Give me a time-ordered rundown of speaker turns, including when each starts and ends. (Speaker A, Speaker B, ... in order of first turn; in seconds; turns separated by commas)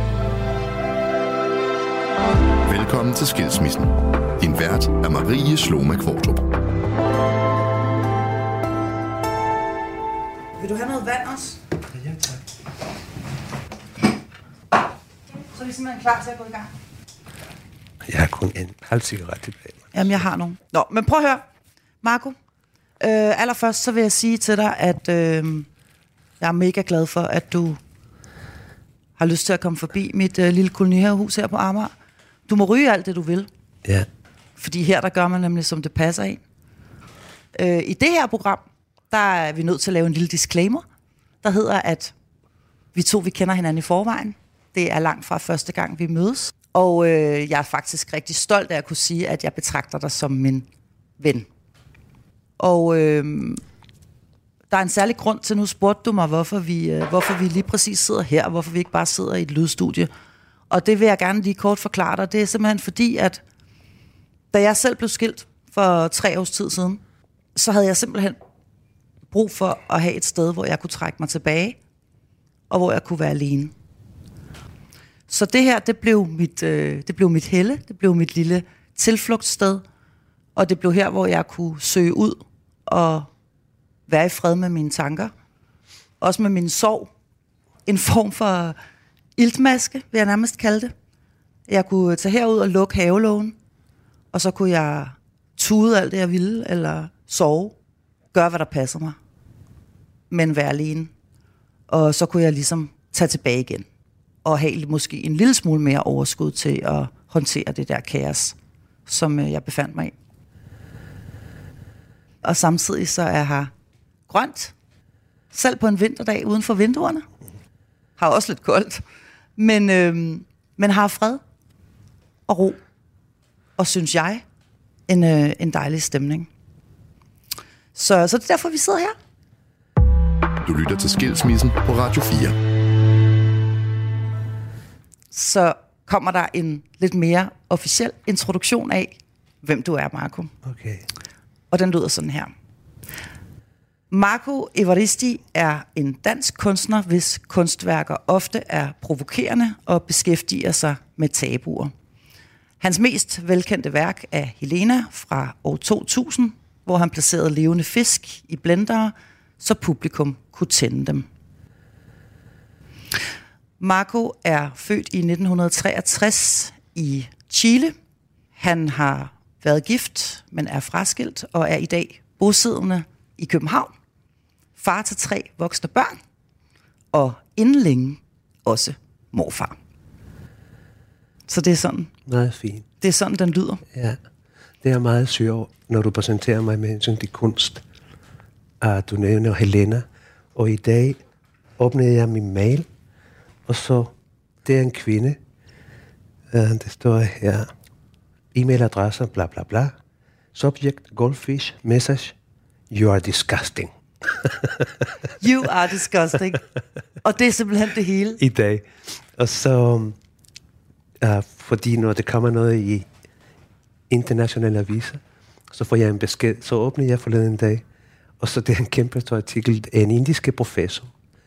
Speaker A: 2.6-6.5, Speaker B: 10.6-11.6, Speaker C: 12.1-12.4, Speaker B: 15.5-16.7, Speaker C: 18.1-20.2, Speaker B: 19.9-21.4, Speaker B: 22.0-22.4, Speaker B: 23.0-25.7, Speaker B: 26.4-27.8, Speaker B: 29.2-31.9, Speaker B: 32.5-33.5, Speaker B: 34.6-36.4, Speaker B: 37.5-40.8, Speaker B: 41.4-42.1, Speaker B: 42.9-50.7, Speaker B: 51.2-51.5, Speaker B: 52.6-53.6, Speaker B: 54.7-60.1, Speaker B: 60.7-63.4, Speaker B: 64.5-67.0, Speaker B: 67.5-68.4, Speaker B: 69.3-71.8, Speaker B: 72.7-73.7, Speaker B: 75.3-79.8, Speaker B: 80.6-83.3, Speaker B: 84.1-85.3, Speaker B: 86.2-87.1, Speaker B: 87.9-88.8, Speaker B: 89.4-90.9, Speaker B: 91.7-93.5, Speaker B: 94.3-97.8, Speaker B: 98.3-99.2, Speaker B: 100.3-101.1, Speaker B: 101.9-103.9, Speaker B: 104.4-108.5, Speaker B: 109.1-110.1, Speaker B: 112.4-113.7, Speaker B: 114.3-114.7, Speaker B: 115.5-117.2, Speaker B: 118.2-119.0, Speaker B: 119.6-121.4, Speaker B: 122.5-122.8, Speaker B: 123.8-124.4, Speaker B: 125.1-126.5, Speaker B: 128.0-129.2, Speaker A: 130.6-132.6, Speaker B: 135.3-140.5, Speaker C: 140.6-141.1, Speaker B: 141.7-142.5, Speaker B: 144.1-151.9, Speaker B: 152.8-161.3, Speaker B: 163.8-167.9, Speaker B: 168.6-173.9, Speaker B: 174.8-176.2, Speaker B: 177.1-179.8, Speaker B: 181.5-182.1, Speaker C: 182.3-182.9, Speaker B: 183.0-183.8, Speaker C: 183.9-184.2, Speaker C: 184.8-187.8, Speaker C: 188.8-191.2, Speaker C: 191.8-192.9, Speaker C: 193.7-195.4, Speaker C: 196.5-197.7, Speaker C: 198.5-199.9, Speaker C: 200.5-202.3, Speaker C: 202.9-204.9, Speaker B: 205.4-206.6, Speaker B: 207.2-208.4, Speaker C: 208.4-210.2, Speaker C: 211.2-213.1, Speaker C: 214.1-217.8, Speaker C: 218.4-221.1